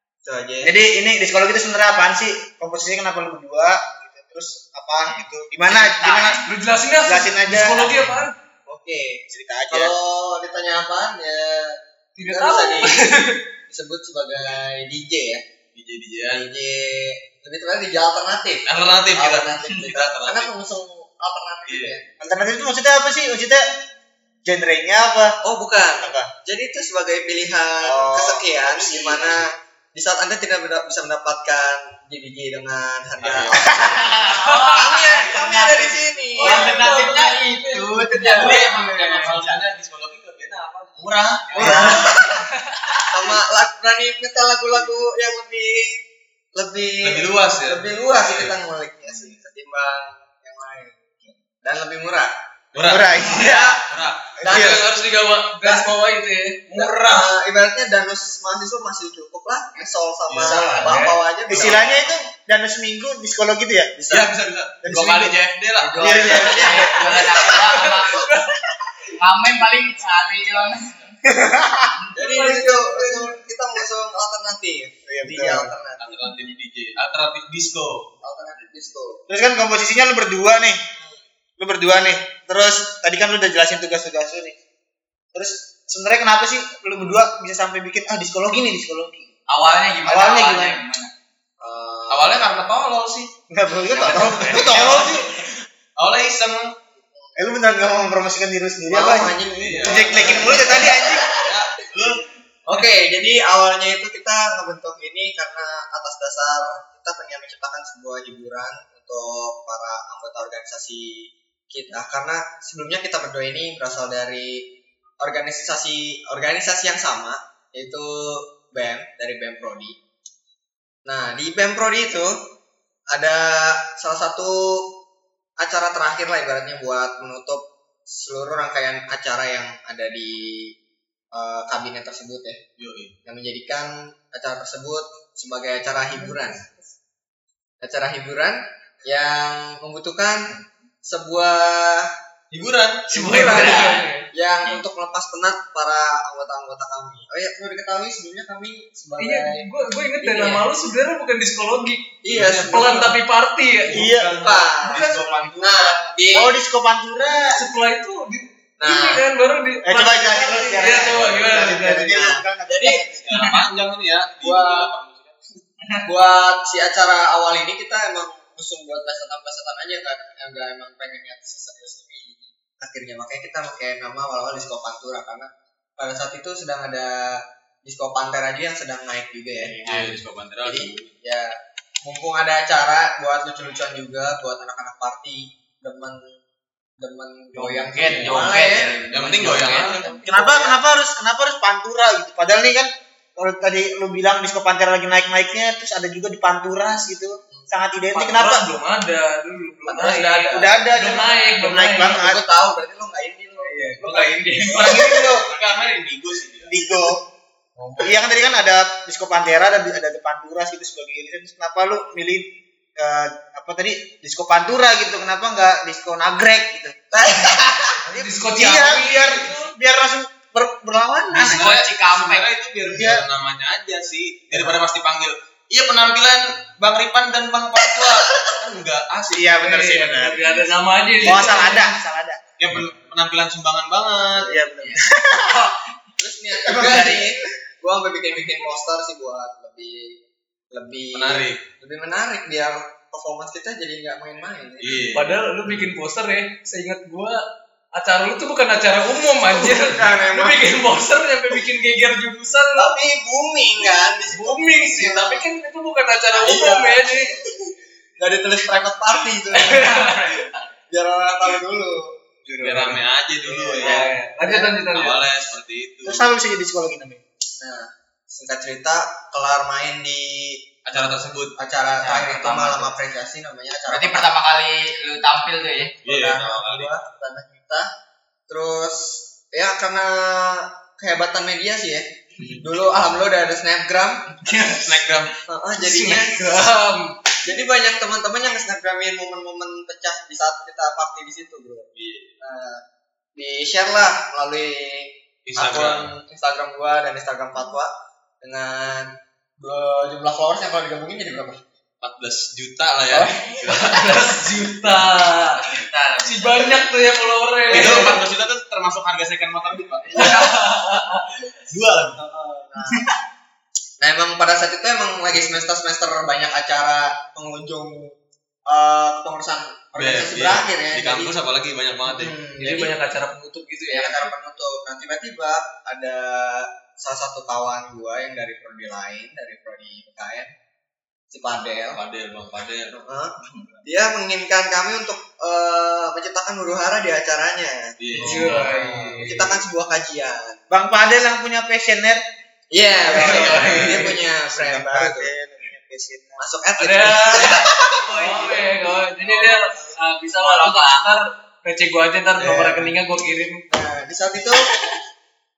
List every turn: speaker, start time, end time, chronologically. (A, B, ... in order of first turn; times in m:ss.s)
0:00.2-0:00.8 A
0:00.6-0:06.4 B
0:05.6-0:06.4 C
0:06.3-0:08.3 D
0:07.0-0:08.1 B
0:08.7-0:13.1 A
0:09.3-0:09.9 B
0:12.2-0:13.4 D
0:13.7-0:15.4 A
0:15.7-0:16.4 E
0:16.3-0:22.0 A
0:18.6-0:20.5 E
0:21.7-0:21.9 E
0:22.2-0:23.6 B
0:24.4-0:25.4 B
0:25.4-0:36.8 A
0:26.0-0:26.3 B
0:27.8-0:29.4 B
0:33.2-0:34.3 E
0:33.9-0:34.7 C
0:34.4-0:35.0 D
0:35.2-0:35.9 B
0:36.4-0:42.0 E
0:36.4-0:39.6 C
0:36.4-0:37.0 B
0:38.0-0:38.5 D
0:38.2-0:39.4 B
0:41.0-0:42.3 B
0:41.5-0:42.3 A
0:41.6-0:42.2 C
0:43.1-0:46.0 A
0:46.5-0:52.3 A
0:47.0-0:48.5 E
0:52.7-0:54.9 E
0:52.8-0:53.8 B
0:53.2-0:53.8 A
0:54.4-0:54.9 A
0:54.4-0:54.8 B
0:54.5-0:56.7 D
0:56.7-0:57.3 E
0:56.7-1:02.0 A
1:00.3-1:02.0 E
1:00.7-1:01.2 D
1:01.5-1:04.0 B
1:04.0-1:04.3 A
1:04.1-1:06.4 E
1:04.8-1:05.4 B
1:05.8-1:07.4 A
1:06.0-1:07.2 B
1:06.2-1:08.3 C
1:07.5-1:08.7 D
1:09.2-1:11.1 C
1:11.2-1:11.9 B
1:12.2-1:16.2 A
1:12.2-1:13.4 D
1:15.1-1:15.7 B
1:16.0-1:18.1 E
1:18.2-1:19.2 A
1:19.3-1:20.8 B
1:21.6-1:24.6 B
1:25.3-1:29.3 B
1:29.5-1:31.1 C
1:30.0-1:30.8 B
1:31.6-1:32.4 A
1:32.1-1:33.3 E
1:33.5-1:35.2 B
1:33.9-1:35.0 C
1:34.6-1:36.8 E
1:37.4-1:41.5 B
1:38.9-1:40.8 A
1:39.6-1:42.2 E
1:42.6-2:00.0 A
2:01.0-2:02.4 A
2:03.1-2:05.0 A
2:05.6-2:10.7 A
2:11.3-2:12.6 A
2:12.8-2:13.1 E
2:13.2-2:16.6 A
2:17.8-2:22.1 A
2:22.5-2:23.4 E
2:23.1-2:24.3 D
2:23.1-2:29.7 A
2:23.4-2:24.0 C
2:29.2-2:34.1 D
2:30.2-2:30.7 A
2:32.2-2:33.2 A
2:32.3-2:33.2 E
2:33.8-2:36.2 E
2:33.9-2:34.4 B
2:34.4-2:36.5 A
2:34.8-2:35.5 D
2:36.3-2:37.7 B
2:37.5-2:42.4 D
2:38.8-2:39.2 A
2:39.8-2:43.3 B
2:41.1-2:41.6 E
2:42.7-2:43.6 C
2:43.3-2:45.4 E
2:44.4-2:44.9 A
2:46.0-2:59.8 A
2:59.7-3:01.1 E
2:59.8-3:00.2 C
3:00.6-3:06.4 A
3:07.0-3:10.8 A
3:07.5-3:10.5 C
3:08.0-3:08.5 E
3:09.1-3:10.1 E
3:10.2-3:18.7 B
3:18.1-3:22.2 D
3:19.8-3:20.7 A
3:20.5-3:22.4 B
3:22.1-3:24.3 A
3:23.6-3:25.1 D
3:24.0-3:26.7 E
3:24.6-3:25.5 B
3:26.7-3:27.2 B
3:27.8-3:28.2 D
3:28.0-3:41.6 B
3:38.0-3:39.7 D
3:41.3-3:42.5 C
3:41.3-3:49.6 E
3:42.8-3:43.2 B
3:44.5-3:44.8 B
3:49.3-3:50.5 B
3:49.5-3:51.9 D
3:51.2-3:52.4 B
3:51.2-3:51.6 E
3:52.6-3:54.6 E
3:54.4-3:55.7 B
3:56.2-4:00.2 A
3:56.6-3:57.4 B
4:00.7-4:05.0 A
4:01.1-4:01.6 E
4:04.8-4:05.4 E
4:05.1-4:12.9 D
4:09.4-4:10.6 A
4:12.7-4:15.4 A
4:14.3-4:17.3 D
4:16.3-4:17.3 A
4:18.2-4:20.2 A
4:19.5-4:20.4 D
4:20.9-4:22.7 A
4:22.6-4:24.2 E
4:22.6-4:23.0 D
4:23.5-4:23.8 B
4:23.8-4:24.7 A
4:23.8-4:25.2 D
4:24.8-4:26.3 E
4:26.0-4:27.2 B
4:27.6-4:30.7 A
4:30.8-4:31.5 E
4:31.6-4:34.3 A
4:32.0-4:32.9 C
4:33.9-4:36.0 C
4:36.0-4:36.9 E
4:36.0-4:37.9 A
4:38.5-4:44.2 A
4:44.4-4:44.9 C
4:44.8-4:45.3 E
4:45.5-4:46.4 A
4:46.0-4:47.2 D
4:47.4-4:51.9 A
4:51.9-4:52.3 E
4:52.4-4:52.8 A
4:53.4-5:01.6 A
4:55.4-4:56.1 E
5:02.0-5:04.3 E
5:03.1-5:03.4 A
5:03.6-5:08.2 D
5:05.3-5:06.9 C
5:07.7-5:10.5 E
5:07.7-5:08.1 A
5:10.1-5:11.4 D
5:10.2-5:10.4 C
5:11.7-5:12.2 E
5:12.2-5:13.0 A
5:14.0-5:18.2 A
5:18.7-5:21.3 A
5:20.0-5:22.4 E
5:22.1-5:22.9 A
5:22.6-5:24.3 D
5:23.9-5:30.5 A
5:31.3-5:32.0 A
5:31.9-5:32.9 E
5:32.9-5:40.6 A
5:38.0-5:39.5 E
5:38.1-5:39.4 D
5:40.7-5:42.2 B
5:42.7-5:45.3 A
5:43.0-5:46.4 B
5:43.1-5:44.2 E
5:43.4-5:44.1 D
5:46.4-5:48.0 A
5:46.8-5:53.6 D
5:47.4-5:48.8 C
5:49.3-5:49.9 A
5:50.4-5:51.1 C
5:52.4-5:52.8 A
5:53.7-5:54.7 A